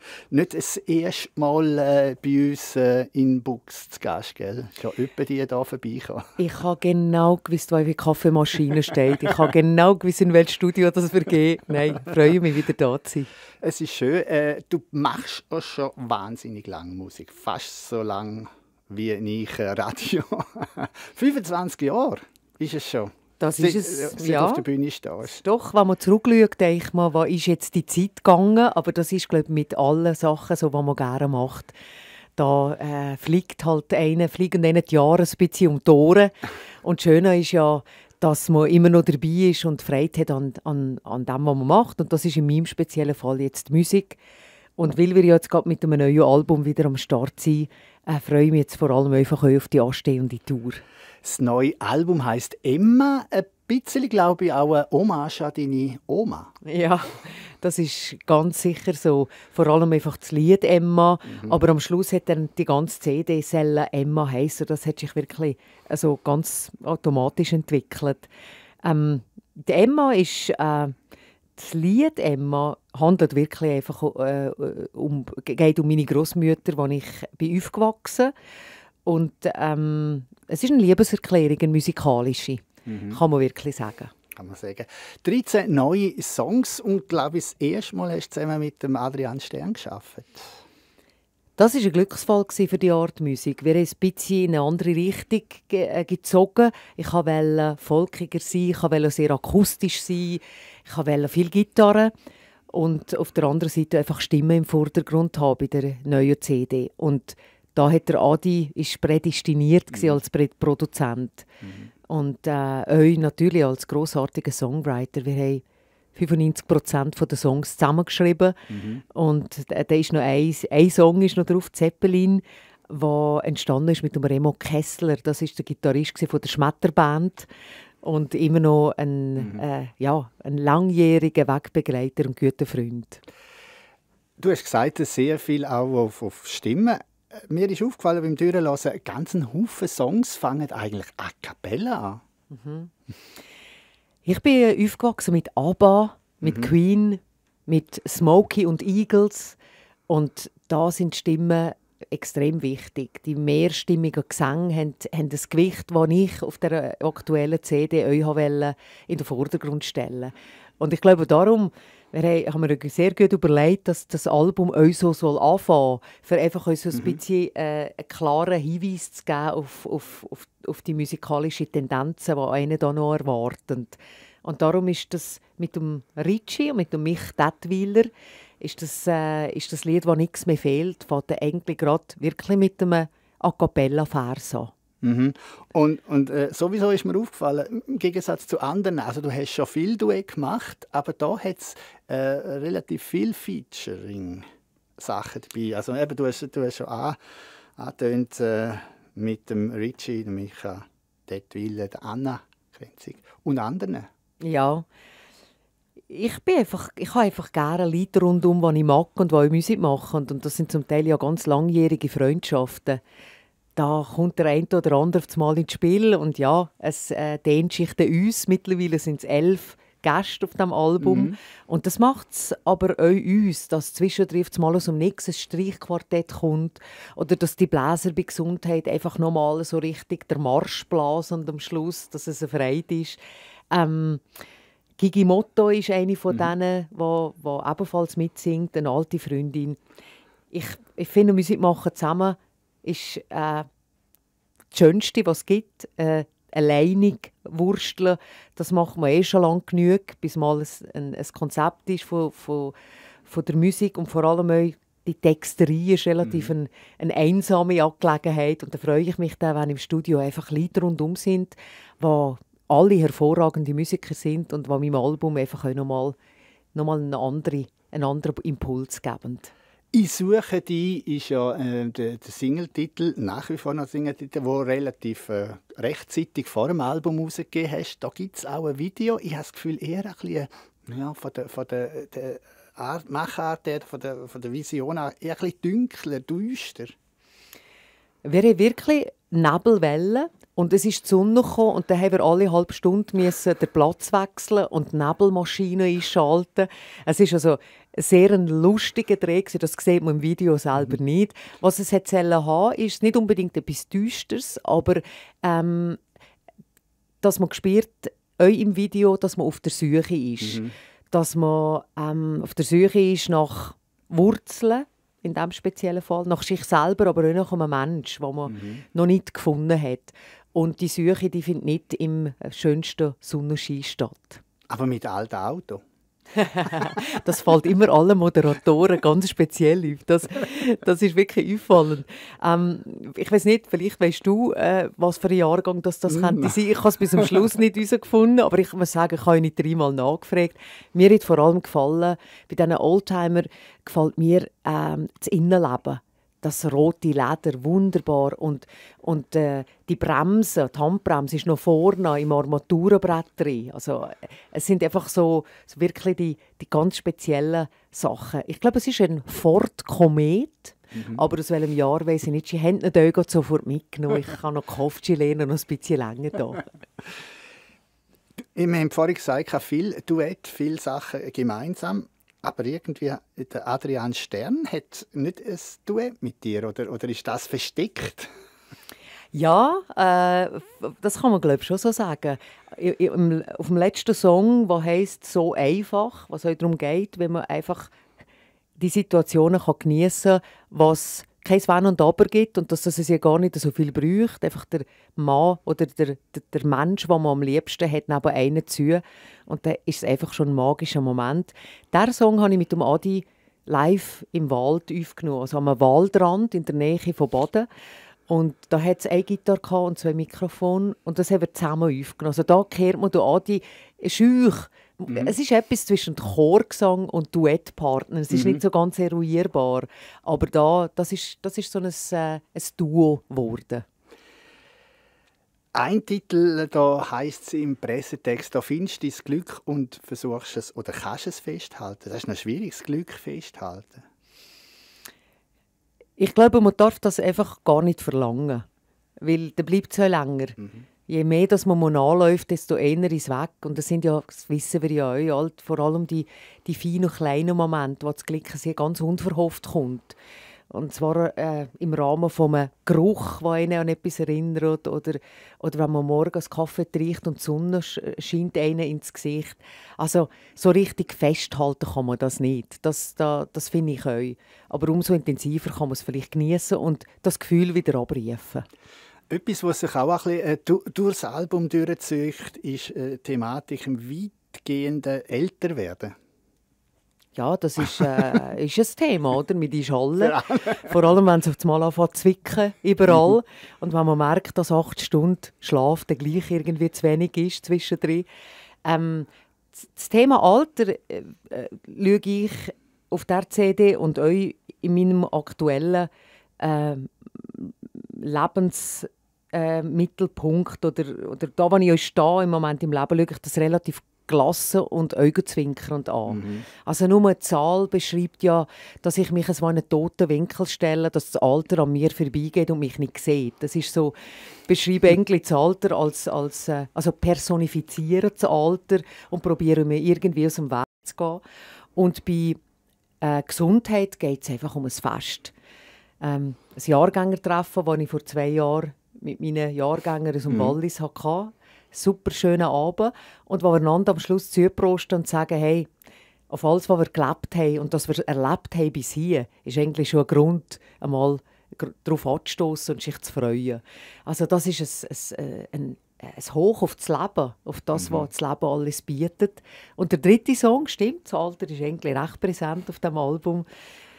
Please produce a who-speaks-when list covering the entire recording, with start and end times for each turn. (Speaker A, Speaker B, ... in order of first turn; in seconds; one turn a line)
Speaker A: 0.3-6.3
Speaker B: 6.4-13.3
Speaker A: 13.6-25.4
Speaker B: 23.4-24.6
Speaker B: 25.2-31.7
Speaker B: 32.4-44.2
Speaker B: 44.8-50.8
Speaker A: 51.2-56.5
Speaker B: 56.6-68.3
Speaker A: 61.3-61.6
Speaker B: 68.8-70.9
Speaker B: 71.6-78.3
Speaker B: 79.0-84.1
Speaker A: 82.8-83.2
Speaker A: 84.3-90.6
Speaker B: 91.6-102.1
Speaker B: 102.7-111.5
Speaker A: 111.6-111.9
Speaker B: 112.1-115.6
Speaker B: 116.1-118.6
Speaker A: 118.7-119.0
Speaker B: 119.1-127.5
Speaker B: 128.0-133.2
Speaker A: 134.4-142.2
Speaker B: 142.5-142.9
Speaker B: 144.2-149.6
Speaker A: 146.4-146.7
Speaker B: 150.1-184.7
Speaker A: 185.0-194.5
Speaker A: 195.0-197.2
Speaker A: 197.8-204.1
Speaker B: 204.4-204.8
Speaker B: 206.1-213.0
Speaker B: 213.8-233.2
Speaker A: 221.0-221.3
Speaker B: 233.7-234.2
Speaker B: 235.0-239.8
Speaker B: 240.5-243.7
Speaker B: 244.7-252.7
Speaker B: 253.3-266.1
Speaker A: 256.2-256.5
Speaker B: 266.7-269.5
Speaker A: 269.9-286.9
Speaker B: 288.2-306.0
Speaker B: 307.2-324.4
Speaker A: 310.4-310.7
Speaker A: 318.5-318.8
Speaker A: 324.7-325.8
Speaker B: 326.4-366.6
Speaker A: 336.1-336.5
Speaker A: 360.9-361.2
Speaker A: 368.6-378.3
Speaker B: 379.3-387.9
Speaker B: 388.8-407.7
Speaker B: 408.3-423.8
Speaker A: 418.3-418.6
Speaker A: 425.7-434.0
Speaker B: 436.2-438.6
Speaker B: 439.2-440.6
Speaker B: 441.1-450.2
Speaker B: 450.7-468.6
Speaker A: 469.3-476.1
Speaker B: 477.4-488.3
Speaker A: 480.2-480.8
Speaker B: 488.8-514.1
Speaker A: 506.3-506.6
Speaker B: 514.7-521.4
Speaker B: 522.0-522.6
Speaker B: 523.2-525.5
Speaker B: 526.2-535.9
Speaker A: 530.5-530.8
Speaker B: 536.5-553.7
Speaker A: 548.0-548.3